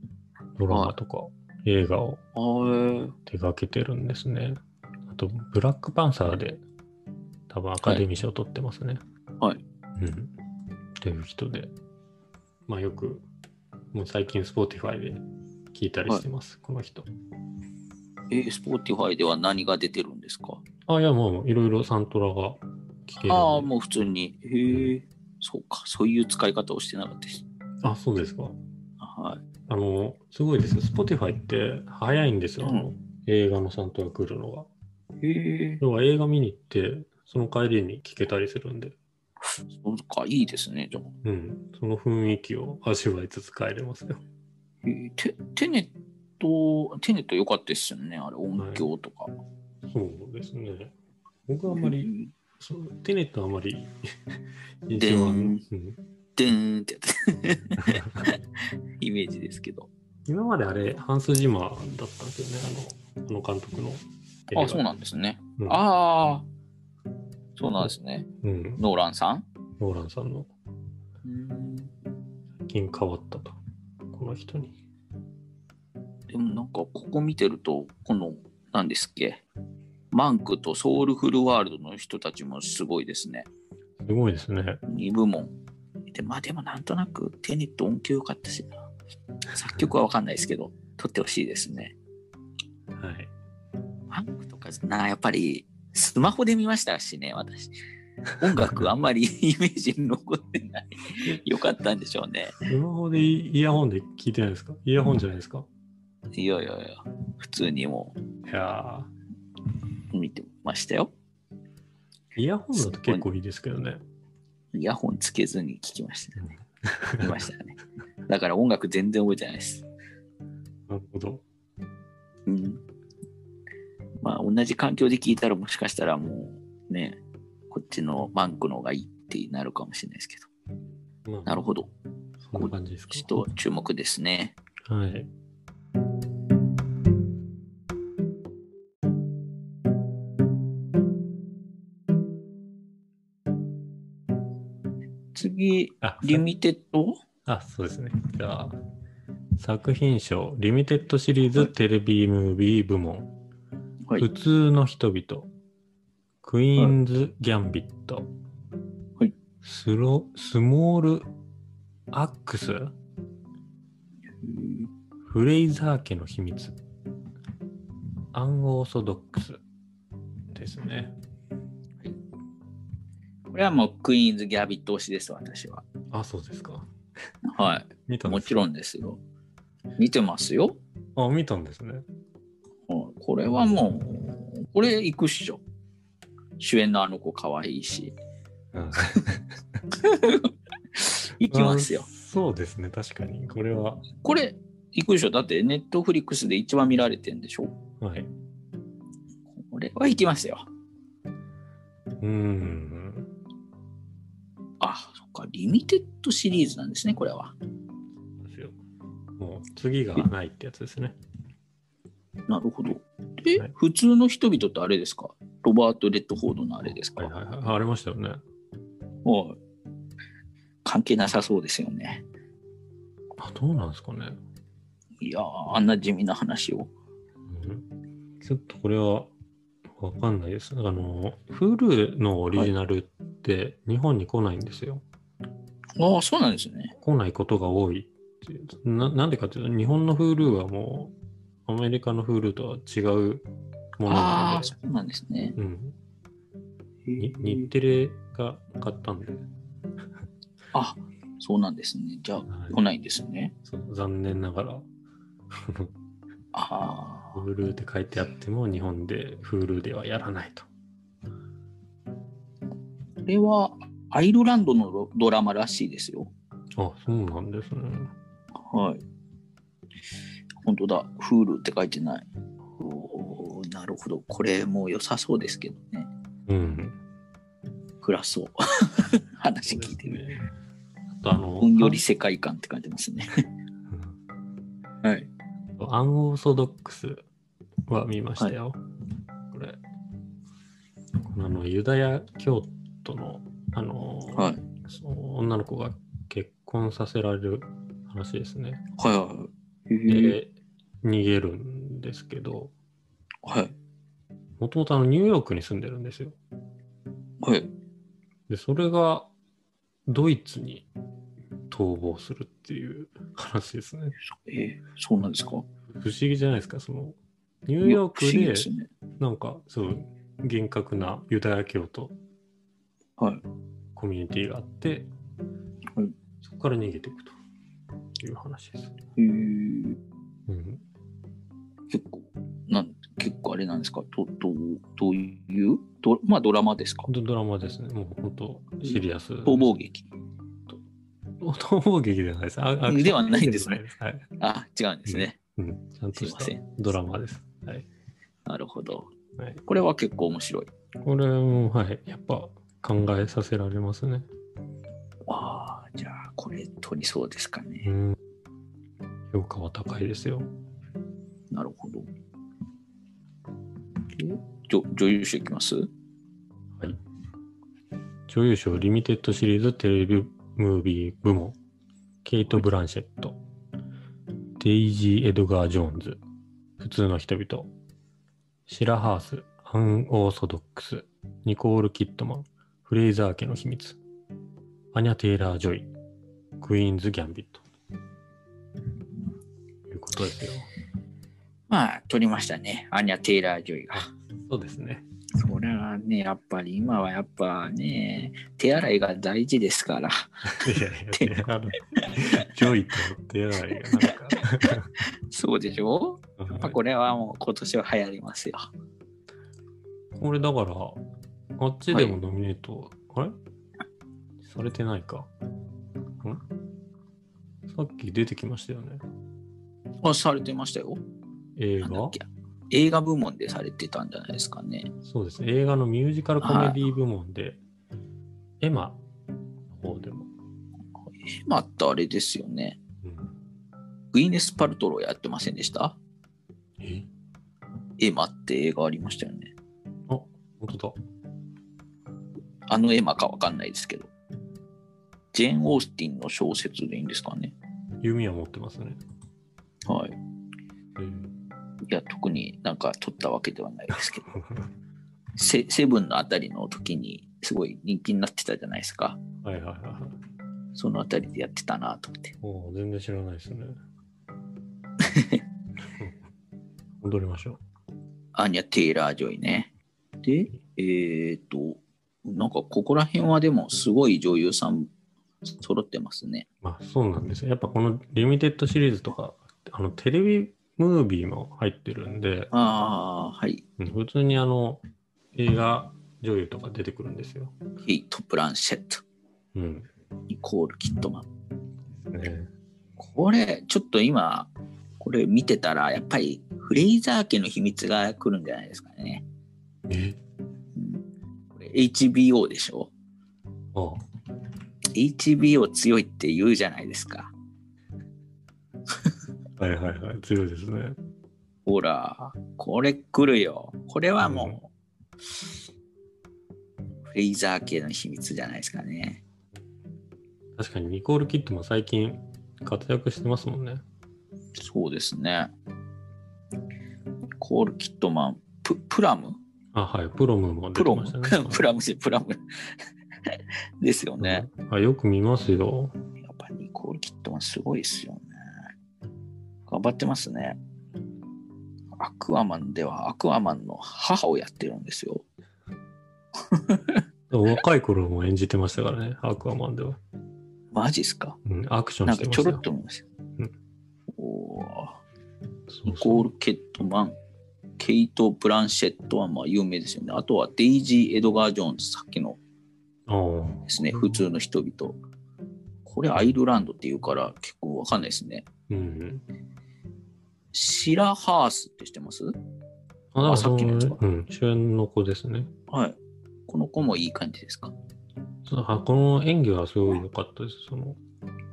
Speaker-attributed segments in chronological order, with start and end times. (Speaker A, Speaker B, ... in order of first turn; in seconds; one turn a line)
Speaker A: 0.6-2.2
Speaker B: 0.7-0.9
Speaker B: 2.4-3.1
Speaker A: 3.3-6.6
Speaker A: 7.5-9.0
Speaker A: 10.0-10.3
Speaker A: 11.0-11.7
Speaker A: 12.7-13.3
Speaker A: 13.9-15.2
Speaker A: 15.7-17.1
Speaker B: 18.3-20.6
Speaker A: 20.9-23.7
Speaker B: 23.2-27.4
Speaker A: 27.8-28.6
Speaker B: 29.0-29.4
Speaker A: 29.7-34.7
Speaker B: 35.2-35.8
Speaker A: 35.8-39.0
Speaker B: 39.6-41.1
Speaker A: 41.2-44.2
Speaker B: 44.8-49.3
Speaker A: 48.6-48.9
Speaker A: 49.9-50.9
Speaker A: 51.5-54.0
Speaker B: 51.7-52.3
Speaker A: 54.9-56.0
Speaker B: 55.0-55.6
Speaker B: 56.4-58.4
Speaker A: 57.8-58.3
Speaker B: 59.0-59.9
Speaker A: 60.3-64.8
Speaker B: 64.5-66.5
Speaker B: 67.6-69.5
Speaker A: 67.8-68.8
Speaker A: 69.8-70.5
Speaker B: 71.2-71.9
Speaker A: 72.6-73.6
Speaker A: 74.1-74.8
Speaker B: 76.3-79.4
Speaker B: 80.1-83.5
Speaker A: 84.0-84.8
Speaker B: 84.9-85.5
Speaker B: 86.1-88.7
Speaker B: 89.5-92.0
Speaker A: 92.9-93.3
Speaker B: 94.1-97.7
Speaker B: 98.4-102.7
Speaker A: 98.6-98.9
Speaker A: 102.6-105.7
Speaker B: 106.3-108.2
Speaker A: 108.5-109.1
Speaker B: 110.1-111.1
Speaker A: 112.3-114.0
Speaker B: 112.8-113.2
Speaker B: 114.7-116.5
Speaker A: 116.8-117.4
Speaker B: 117.2-119.9
Speaker A: 120.9-121.4
Speaker B: 122.5-122.8
Speaker B: 124.2-127.2
Speaker B: 127.7-130.5
Speaker A: 131.2-131.6
Speaker B: 131.5-131.9
Speaker A: 132.4-133.3
Speaker B: 132.6-134.6
Speaker A: 134.9-135.3
Speaker B: 145.3-147.2
Speaker A: 146.0-146.4
Speaker A: 147.5-148.8
Speaker A: 149.6-153.3
Speaker A: 154.2-155.5
Speaker A: 156.4-158.3
Speaker A: 159.6-161.3
Speaker A: 162.1-162.9
Speaker B: 164.4-164.9
Speaker A: 165.2-166.8
Speaker A: 168.3-169.6
Speaker A: 170.5-171.2
Speaker B: 173.5-175.9
Speaker A: 176.1-176.9
Speaker B: 177.4-179.2
Speaker A: 178.1-178.7
Speaker B: 180.0-180.8
Speaker A: 181.2-182.1
Speaker B: 182.9-185.6
Speaker B: 186.6-188.1
Speaker A: 188.7-189.6
Speaker B: 189.9-192.1
Speaker A: 191.5-194.1
Speaker B: 194.2-197.7
Speaker A: 198.0-198.3
Speaker B: 199.6-200.7
Speaker A: 202.2-203.3
Speaker B: 204.8-207.6
Speaker A: 208.4-208.8
Speaker A: 209.4-211.2
Speaker B: 212.5-217.3
Speaker A: 216.9-218.4
Speaker B: 219.2-219.6
Speaker B: 220.8-222.2
Speaker A: 223.4-224.4
Speaker B: 225.2-226.9
Speaker A: 227.5-227.9
Speaker A: 228.4-229.3
Speaker A: 230.0-235.0
Speaker B: 236.0-236.9
Speaker A: 237.0-241.1
Speaker A: 241.7-243.5
Speaker A: 244.0-244.8
Speaker B: 244.1-245.6
Speaker A: 245.6-246.0
Speaker B: 247.1-247.7
Speaker A: 247.2-249.5
Speaker B: 250.7-253.6
Speaker A: 252.5-252.8
Speaker A: 253.7-254.9
Speaker A: 255.5-255.9
Speaker B: 256.5-257.4
Speaker A: 257.4-260.7
Speaker B: 263.3-266.3
Speaker A: 266.8-268.1
Speaker B: 268.6-269.0
Speaker B: 270.6-272.3
Speaker B: 272.8-276.1
Speaker A: 276.5-277.0
Speaker B: 278.0-280.2
Speaker A: 279.7-280.4
Speaker A: 281.1-282.0
Speaker B: 281.6-283.4
Speaker A: 283.9-284.1
Speaker B: 285.0-285.3
Speaker A: 285.8-287.2
Speaker A: 287.9-288.8
Speaker A: 289.5-289.8
Speaker A: 291.3-298.8
Speaker B: 294.3-294.6
Speaker B: 299.0-300.4
Speaker A: 300.1-302.7
Speaker B: 303.4-303.7
Speaker A: 304.6-306.4
Speaker B: 307.4-307.7
Speaker A: 308.5-309.3
Speaker A: 310.1-310.9
Speaker A: 311.7-314.2
Speaker B: 314.3-315.7
Speaker A: 315.9-322.1
Speaker B: 317.8-318.9
Speaker A: 324.0-325.1
Speaker A: 326.4-327.4
Speaker A: 328.2-328.9
Speaker B: 329.2-330.0
Speaker A: 330.5-330.8
Speaker B: 331.9-337.1
Speaker A: 337.1-339.7
Speaker B: 338.9-340.1
Speaker A: 341.4-344.3
Speaker B: 342.9-343.8
Speaker B: 344.4-345.4
Speaker A: 345.1-347.9
Speaker B: 346.1-346.6
Speaker B: 348.5-349.1
Speaker B: 349.7-350.7
Speaker A: 351.0-354.3
Speaker B: 355.3-357.9
Speaker A: 357.9-358.2
Speaker A: 359.3-360.5
Speaker B: 361.5-362.1
Speaker B: 364.1-365.9
Speaker A: 368.3-371.6
Speaker A: 372.2-373.4
Speaker A: 374.6-376.2
Speaker A: 376.8-377.7
Speaker A: 378.7-384.0
Speaker A: 384.9-385.9
Speaker A: 386.6-387.6
Speaker A: 389.9-390.7
Speaker B: 391.7-394.1
Speaker A: 393.9-395.1
Speaker B: 395.4-401.3
Speaker A: 400.5-404.9
Speaker B: 401.9-402.5
Speaker B: 403.7-408.7
Speaker A: 406.4-406.8
Speaker A: 410.2-411.0
Speaker A: 411.6-413.4
Speaker B: 411.9-412.2
Speaker A: 414.4-415.3
Speaker A: 417.7-419.0
Speaker B: 420.0-421.0
Speaker A: 421.6-422.2
Speaker B: 421.8-424.9
Speaker A: 425.0-427.6
Speaker B: 426.4-426.8
Speaker A: 428.6-429.0
Speaker A: 429.7-430.3
Speaker B: 431.3-432.8
Speaker A: 433.0-433.3
Speaker B: 434.1-436.0
Speaker A: 436.8-437.1
Speaker B: 438.0-439.5
Speaker A: 440.1-441.0
Speaker B: 442.7-444.1
Speaker B: 445.3-447.6
Speaker A: 448.0-449.0
Speaker B: 449.9-450.2
Speaker A: 451.0-451.3
Speaker B: 451.9-454.3
Speaker A: 454.3-454.7
Speaker B: 455.4-459.2
Speaker A: 459.4-460.2
Speaker B: 460.8-462.4
Speaker A: 462.4-463.8
Speaker B: 465.0-465.4
Speaker A: 467.0-467.6
Speaker B: 468.4-469.7
Speaker B: 470.2-474.9
Speaker B: 475.5-476.5
Speaker A: 476.6-482.5
Speaker B: 482.5-483.6
Speaker A: 483.8-484.8
Speaker A: 485.4-487.6
Speaker B: 487.8-489.0
Speaker A: 489.6-489.9
Speaker B: 490.3-491.3
Speaker A: 492.1-492.5
Speaker B: 493.0-499.2
Speaker A: 499.9-500.2
Speaker B: 500.8-501.0
Speaker B: 501.6-502.9
Speaker A: 503.7-504.0
Speaker B: 504.9-507.3
Speaker A: 509.6-511.0
Speaker B: 511.7-514.7
Speaker A: 514.2-514.6
Speaker B: 517.1-519.2
Speaker A: 520.6-523.8
Speaker B: 524.6-525.5
Speaker B: 527.4-529.4
Speaker A: 529.7-531.7
Speaker B: 530.8-532.4
Speaker B: 533.3-534.5
Speaker A: 534.2-536.0
Speaker B: 536.2-538.3
Speaker B: 539.7-540.6
Speaker B: 542.0-545.2
Speaker B: 546.5-547.0
Speaker A: 547.3-550.0
Speaker B: 550.7-551.4
Speaker A: 551.5-552.6
Speaker B: 552.1-553.1
Speaker B: 554.2-555.0
Speaker A: 555.7-556.3
Speaker B: 555.9-557.2
Speaker B: 557.8-562.4
Speaker A: 563.1-564.2
Speaker B: 563.7-565.0
Speaker B: 565.9-568.5
Speaker A: 568.7-569.2
Speaker B: 570.5-572.4
Speaker A: 573.1-575.5
Speaker B: 573.2-574.0
Speaker B: 575.7-577.7
Speaker A: 578.5-581.0